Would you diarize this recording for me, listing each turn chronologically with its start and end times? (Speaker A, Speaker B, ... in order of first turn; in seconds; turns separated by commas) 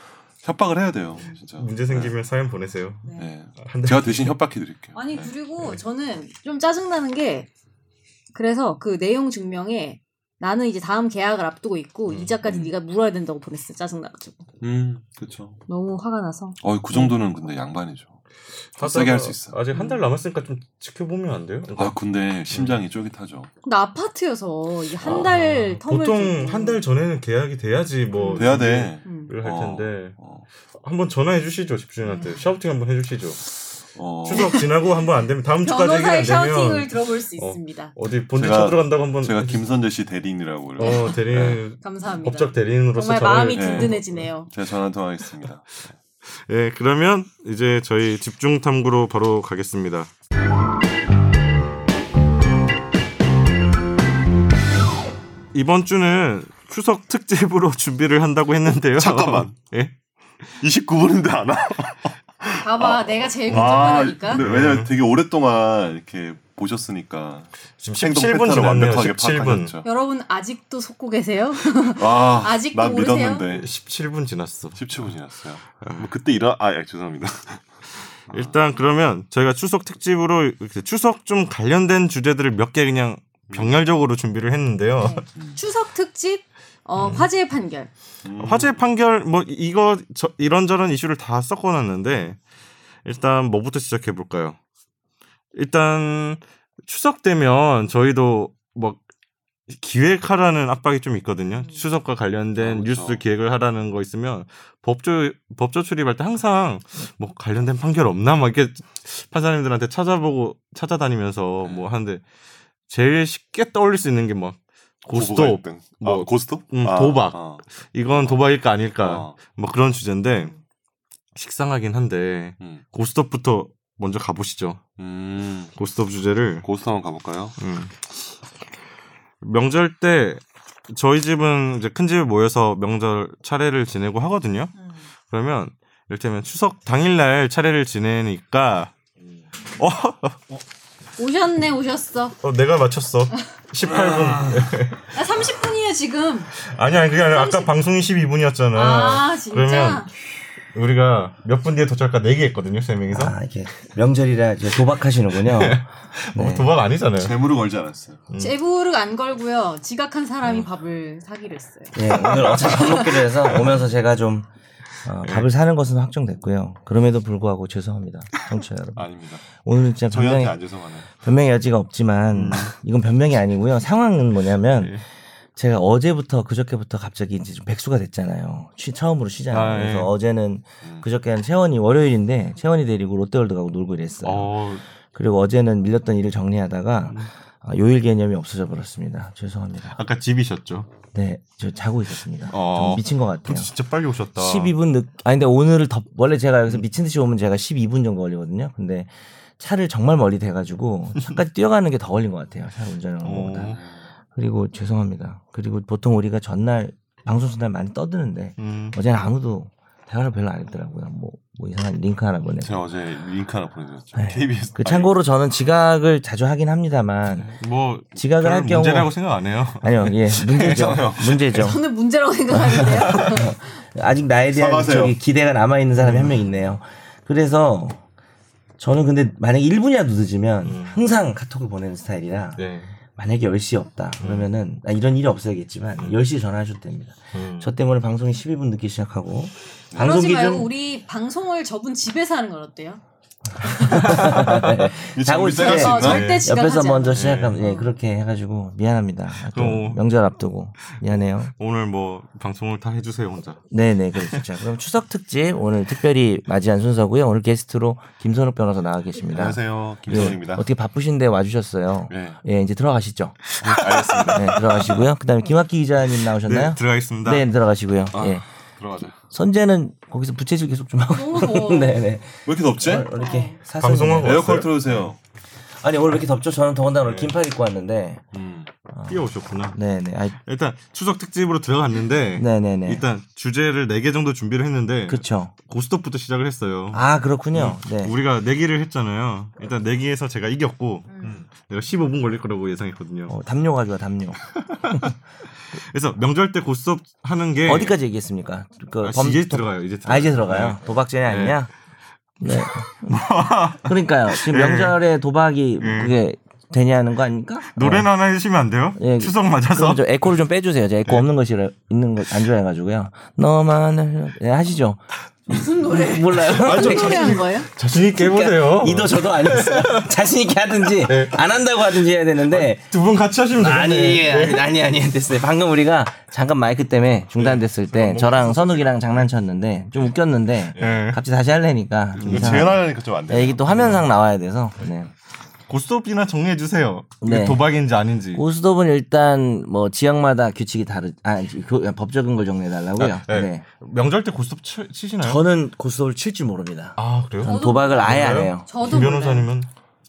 Speaker A: 0.4-2.1, Speaker B: 1.6-3.0, Speaker C: 3.0-3.3, Speaker A: 3.2-5.3, Speaker B: 3.6-4.4, Speaker C: 5.0-7.5, Speaker C: 8.3-14.5, Speaker B: 12.1-12.4, Speaker A: 12.4-12.7, Speaker A: 14.6-15.6, Speaker C: 15.7-16.6, Speaker A: 16.6-18.2, Speaker B: 16.9-17.2, Speaker B: 18.6-22.0, Speaker A: 18.8-20.0, Speaker A: 21.8-23.5, Speaker B: 22.5-22.8, Speaker C: 23.6-26.8, Speaker B: 25.0-30.2, Speaker C: 28.1-28.5, Speaker A: 28.3-30.5, Speaker C: 29.1-29.3, Speaker B: 30.8-33.4, Speaker C: 32.0-32.4, Speaker A: 33.9-34.6, Speaker B: 34.2-39.6, Speaker C: 34.4-34.6, Speaker C: 35.6-37.9, Speaker A: 38.3-41.6, Speaker C: 40.8-41.2, Speaker B: 40.8-44.3, Speaker C: 41.8-44.5, Speaker A: 43.5-45.9, Speaker B: 46.5-50.1, Speaker B: 55.5-59.9, Speaker A: 58.9-59.5, Speaker A: 60.6-69.9, Speaker C: 62.6-64.4, Speaker B: 63.5-64.9, Speaker B: 67.8-69.8, Speaker C: 69.8-73.4, Speaker A: 71.7-73.7, Speaker B: 73.5-75.1, Speaker A: 74.8-77.6, Speaker B: 75.8-76.1, Speaker A: 78.3-78.5, Speaker B: 78.3-85.3, Speaker A: 83.5-83.8, Speaker C: 85.0-87.9, Speaker B: 87.0-87.3, Speaker A: 88.2-88.8, Speaker B: 88.4-92.4, Speaker B: 93.0-94.6, Speaker B: 95.5-99.0, Speaker B: 99.7-112.2, Speaker A: 102.6-103.2, Speaker A: 111.6-111.9, Speaker B: 112.9-120.5, Speaker A: 115.1-119.4, Speaker B: 121.3-124.8, Speaker A: 125.0-125.7, Speaker B: 125.8-126.7, Speaker A: 126.6-127.6, Speaker B: 127.6-128.1, Speaker B: 129.4-134.7, Speaker B: 135.3-138.9, Speaker B: 139.8-140.4, Speaker C: 141.2-142.4, Speaker B: 142.4-145.2, Speaker A: 143.9-144.7, Speaker C: 145.1-146.5, Speaker B: 146.6-150.1, Speaker C: 147.3-147.7, Speaker C: 148.7-150.1, Speaker B: 150.7-153.3, Speaker D: 153.1-156.7, Speaker B: 155.4-157.4, Speaker A: 157.2-158.2, Speaker B: 158.3-158.6, Speaker C: 158.4-162.0, Speaker D: 161.9-164.5, Speaker B: 162.2-162.7, Speaker D: 165.0-170.6, Speaker A: 169.0-169.4, Speaker A: 170.1-171.1, Speaker D: 171.1-175.0, Speaker B: 172.3-172.7, Speaker B: 174.8-175.0, Speaker D: 175.6-184.5, Speaker B: 179.5-180.1, Speaker B: 184.2-184.8, Speaker D: 185.1-190.0, Speaker B: 189.9-190.9, Speaker D: 191.1-193.7, Speaker B: 192.5-194.7, Speaker D: 194.4-203.8, Speaker B: 203.2-203.8, Speaker D: 204.3-212.8, Speaker B: 208.6-209.0, Speaker A: 212.6-215.1, Speaker D: 214.2-217.5, Speaker B: 217.3-221.7, Speaker D: 218.2-219.1, Speaker D: 219.8-221.8, Speaker A: 220.6-221.4, Speaker C: 221.5-223.6, Speaker D: 222.5-228.0, Speaker A: 224.5-225.2, Speaker B: 226.0-226.5, Speaker D: 228.8-232.6, Speaker B: 230.6-231.0, Speaker B: 232.6-232.9, Speaker D: 233.2-240.7, Speaker B: 234.2-234.5, Speaker B: 237.3-237.7, Speaker C: 240.0-243.0, Speaker C: 243.6-244.2, Speaker D: 243.6-251.5, Speaker B: 243.9-244.6, Speaker A: 244.5-246.4, Speaker C: 245.6-247.9, Speaker B: 246.0-246.5, Speaker B: 247.1-247.6, Speaker B: 249.5-250.0, Speaker B: 251.5-253.6, Speaker D: 253.7-263.6, Speaker A: 259.3-260.7, Speaker A: 262.1-262.4, Speaker A: 263.6-264.7, Speaker B: 263.6-265.0, Speaker D: 264.3-268.4, Speaker B: 266.1-267.5, Speaker A: 268.1-269.2, Speaker D: 269.3-274.6, Speaker C: 271.1-272.0, Speaker A: 272.5-273.1, Speaker C: 273.1-273.6, Speaker B: 273.8-274.7, Speaker A: 274.2-275.2, Speaker D: 275.8-278.2, Speaker B: 277.1-277.3, Speaker A: 278.3-278.7, Speaker D: 278.9-280.4, Speaker B: 279.1-279.8, Speaker B: 280.4-293.3, Speaker D: 282.4-283.1, Speaker D: 285.1-285.5, Speaker D: 286.9-288.2, Speaker A: 291.2-291.5, Speaker D: 293.3-294.4, Speaker B: 294.7-295.1, Speaker B: 295.8-297.9, Speaker D: 297.6-301.7, Speaker B: 299.0-301.6, Speaker D: 302.4-303.3, Speaker B: 302.4-305.0, Speaker D: 303.8-308.1, Speaker B: 305.8-306.2, Speaker B: 307.8-310.1, Speaker D: 309.0-317.4, Speaker C: 315.6-317.7, Speaker B: 316.5-320.1, Speaker D: 318.1-322.9, Speaker B: 321.0-321.4, Speaker B: 322.5-324.7, Speaker D: 323.6-335.1, Speaker B: 327.4-329.1, Speaker B: 330.8-331.2, Speaker A: 332.2-334.0, Speaker B: 332.2-332.7, Speaker B: 335.7-338.4, Speaker D: 337.2-337.6, Speaker D: 338.4-343.6, Speaker B: 343.0-345.4, Speaker D: 345.2-348.7, Speaker B: 347.0-349.7, Speaker C: 347.4-349.5